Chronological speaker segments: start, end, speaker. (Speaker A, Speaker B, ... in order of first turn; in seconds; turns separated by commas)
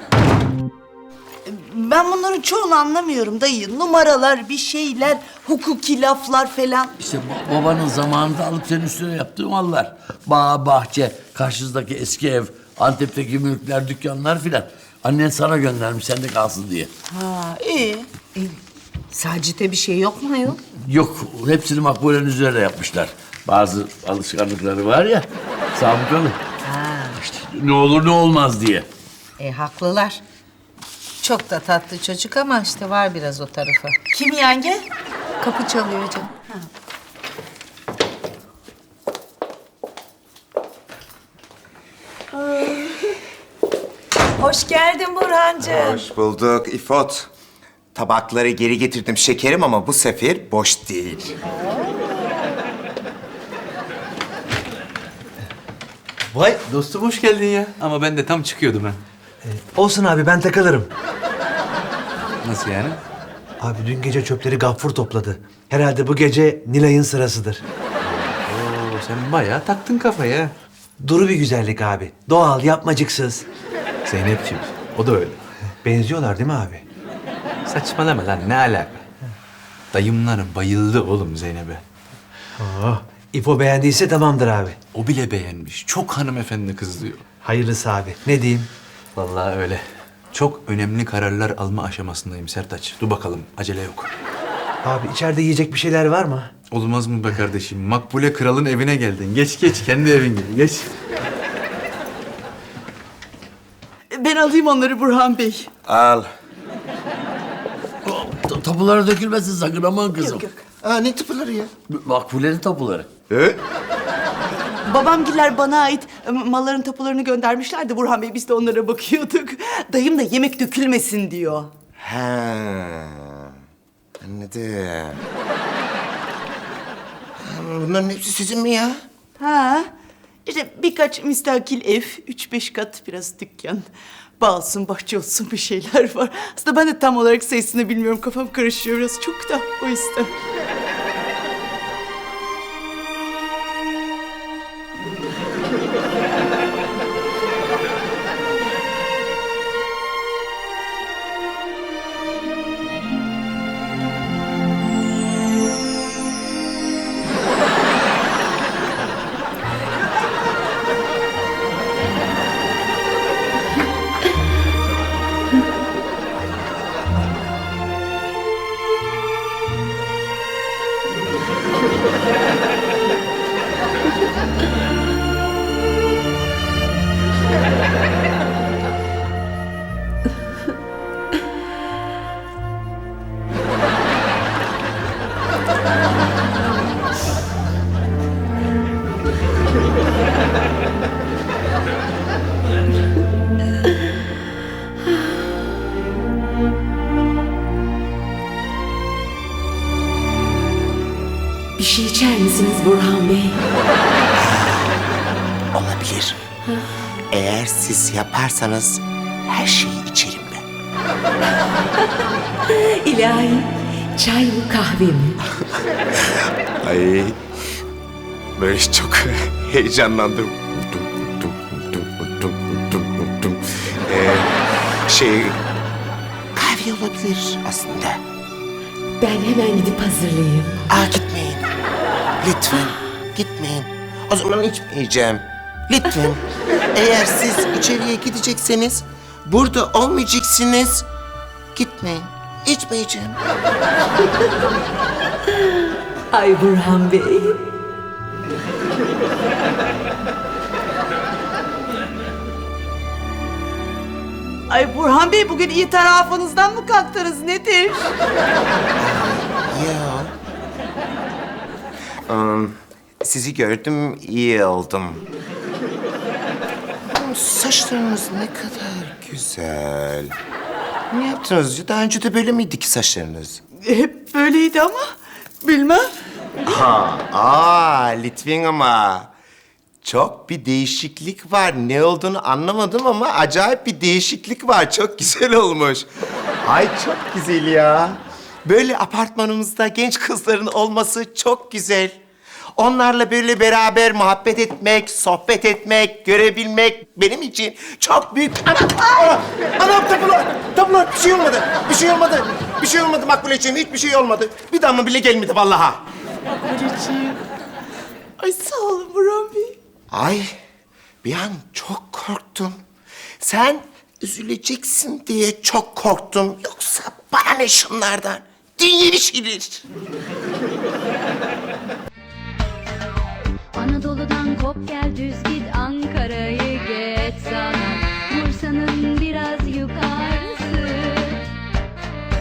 Speaker A: 1.5-6.9, Speaker B: 7.0-16.9, Speaker A: 17.1-17.7, Speaker C: 17.4-18.5, Speaker C: 19.1-20.6, Speaker B: 20.8-26.4, Speaker C: 26.6-27.2, Speaker B: 27.1-28.9, Speaker C: 29.4-30.2, Speaker C: 31.2-34.0, Speaker A: 34.1-34.8, Speaker C: 35.4-36.3, Speaker C: 44.4-45.9, Speaker D: 45.6-47.3, Speaker D: 47.9-51.3, Speaker E: 56.5-59.0, Speaker F: 59.5-60.9, Speaker E: 62.4-63.0, Speaker F: 63.6-67.6, Speaker E: 68.0-70.5, Speaker F: 71.0-73.4, Speaker E: 74.0-75.4, Speaker F: 75.8-76.8, Speaker E: 77.7-79.0, Speaker E: 79.9-81.8, Speaker F: 82.6-84.7, Speaker E: 84.9-87.2, Speaker F: 87.5-88.7, Speaker E: 89.1-94.1, Speaker F: 94.8-96.5, Speaker E: 96.7-100.9, Speaker A: 104.1-105.7, Speaker D: 105.9-106.3, Speaker B: 108.0-110.5, Speaker A: 110.2-110.6, Speaker D: 110.8-111.7, Speaker B: 111.9-113.1, Speaker D: 113.3-113.6, Speaker A: 114.6-121.7, Speaker D: 122.0-123.5, Speaker D: 124.2-125.2, Speaker D: 127.4-129.0, Speaker A: 129.4-129.9, Speaker A: 130.4-133.9, Speaker A: 134.4-140.3, Speaker G: 201.8-203.6, Speaker D: 205.7-206.4, Speaker D: 207.3-210.6, Speaker G: 212.8-215.3, Speaker D: 216.2-217.4, Speaker D: 218.6-225.6, Speaker D: 226.6-228.2, Speaker G: 229.2-230.8, Speaker D: 230.9-231.7, Speaker D: 232.4-241.1, Speaker D: 241.7-243.4, Speaker A: 246.4-247.2, Speaker A: 254.7-258.1, Speaker D: 259.0-260.3, Speaker D: 262.3-265.2, Speaker D: 267.1-270.3, Speaker D: 271.1-273.6, Speaker A: 273.8-275.0, Speaker A: 275.6-276.1, Speaker D: 276.6-279.3, Speaker D: 280.0-286.1, Speaker D: 286.6-292.2, Speaker D: 292.8-306.1, Speaker A: 306.5-307.4, Speaker A: 308.4-309.8, Speaker D: 310.1-310.5, Speaker D: 311.2-312.8, Speaker D: 313.4-319.8, Speaker H: 323.7-331.4